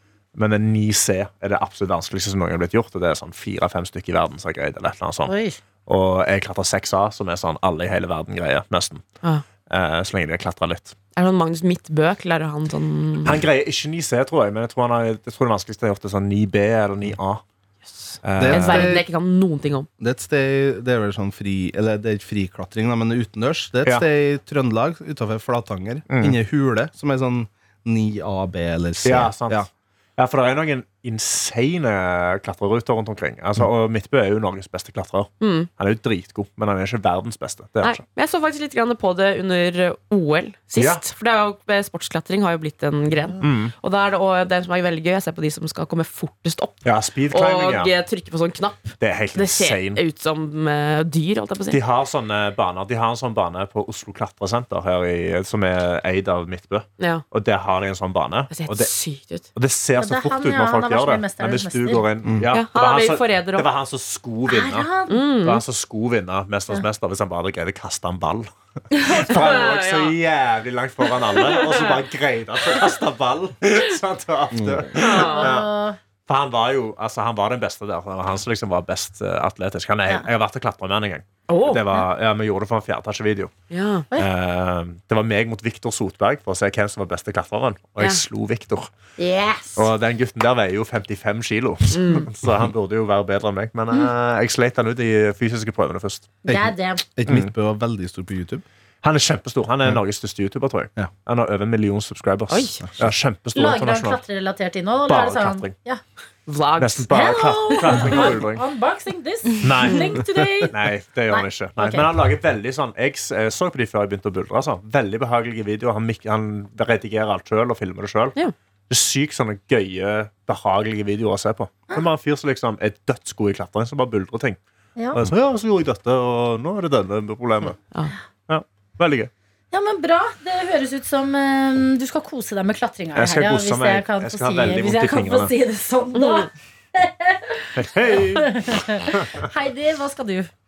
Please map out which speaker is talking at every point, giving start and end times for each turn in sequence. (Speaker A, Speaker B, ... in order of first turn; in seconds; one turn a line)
Speaker A: 0.3-5.3
Speaker B: 5.2-5.6
Speaker A: 5.8-9.0
Speaker A: 9.7-10.9
Speaker C: 11.2-13.4
Speaker A: 13.2-17.4
Speaker C: 17.9-19.9
Speaker A: 18.2-18.9
Speaker D: 18.4-19.1
Speaker D: 20.0-29.7
Speaker A: 26.1-26.4
Speaker A: 29.0-38.0
Speaker C: 35.4-35.7
Speaker C: 37.8-51.8
Speaker A: 40.8-41.0
Speaker A: 43.4-43.7
Speaker A: 46.8-47.9
Speaker A: 49.0-50.0
Speaker A: 51.7-58.9
Speaker C: 57.0-57.2
Speaker C: 58.5-59.5
Speaker A: 59.5-64.9
Speaker B: 60.0-62.0
Speaker C: 62.5-63.7
Speaker B: 64.5-65.2
Speaker C: 65.1-65.6
Speaker A: 65.4-75.7
Speaker C: 69.0-70.2
Speaker C: 71.0-72.0
Speaker D: 74.5-74.9
Speaker C: 75.0-75.5
Speaker B: 75.0-76.0
Speaker A: 76.3-83.5
Speaker C: 81.5-82.0
Speaker C: 83.7-84.0
Speaker A: 84.1-88.9
Speaker B: 89.2-89.9
Speaker A: 89.8-96.4
Speaker C: 91.9-92.3
Speaker D: 96.4-98.6
Speaker B: 96.5-97.0
Speaker A: 97.2-97.5
Speaker A: 99.0-104.2
Speaker C: 102.5-102.8
Speaker B: 103.5-106.0
Speaker A: 105.1-105.7
Speaker C: 106.5-107.1
Speaker A: 106.8-108.6
Speaker B: 107.1-110.7
Speaker A: 109.6-118.4
Speaker C: 109.9-110.1
Speaker B: 111.3-112.1
Speaker A: 118.9-124.6
Speaker B: 125.0-125.2
Speaker A: 125.1-127.8
Speaker A: 128.5-129.3
Speaker B: 129.7-140.5
Speaker A: 133.1-135.5
Speaker C: 136.2-136.4
Speaker A: 137.7-139.5